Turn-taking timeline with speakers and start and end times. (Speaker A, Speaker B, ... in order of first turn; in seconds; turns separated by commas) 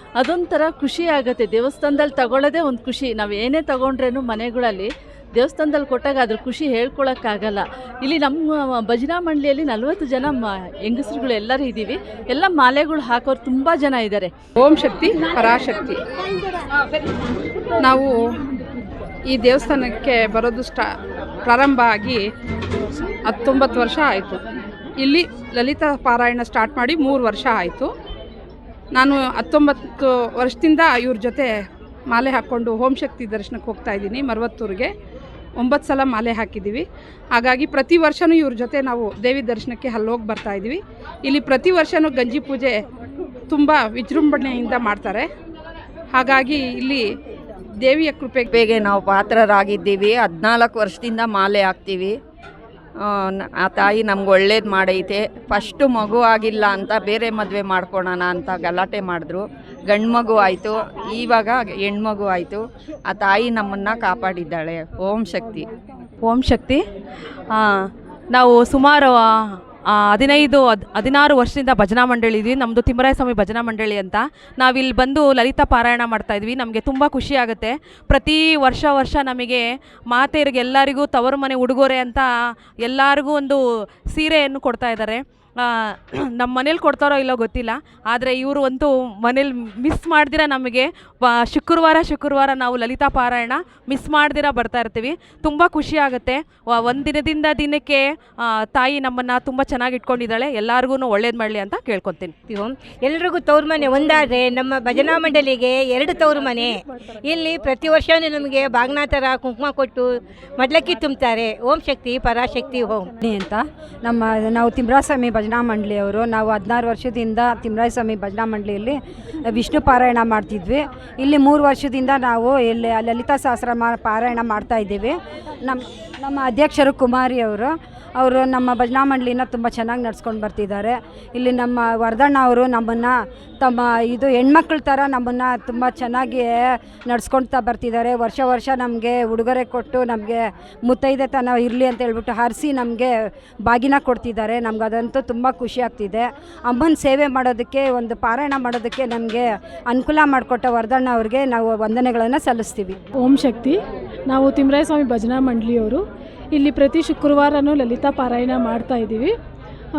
Speaker A: 0.2-14.3, Speaker B: 14.6-16.0, Speaker B: 17.8-18.1, Speaker B: 19.3-20.9, Speaker B: 21.5-22.2, Speaker B: 23.3-24.4, Speaker B: 25.0-27.9, Speaker B: 28.9-31.5, Speaker B: 32.1-34.9, Speaker B: 35.6-42.8, Speaker B: 43.5-45.3, Speaker B: 46.1-47.0, Speaker B: 47.8-48.5, Speaker C: 48.5-52.1, Speaker C: 53.1-65.7, Speaker D: 66.2-66.8, Speaker D: 68.3-69.2, Speaker D: 69.9-82.2, Speaker D: 82.8-83.6, Speaker D: 84.1-102.3, Speaker E: 102.5-113.1, Speaker F: 113.2-119.0, Speaker F: 119.5-153.0, Speaker G: 153.2-153.8, Speaker G: 154.3-156.0, Speaker G: 156.5-159.3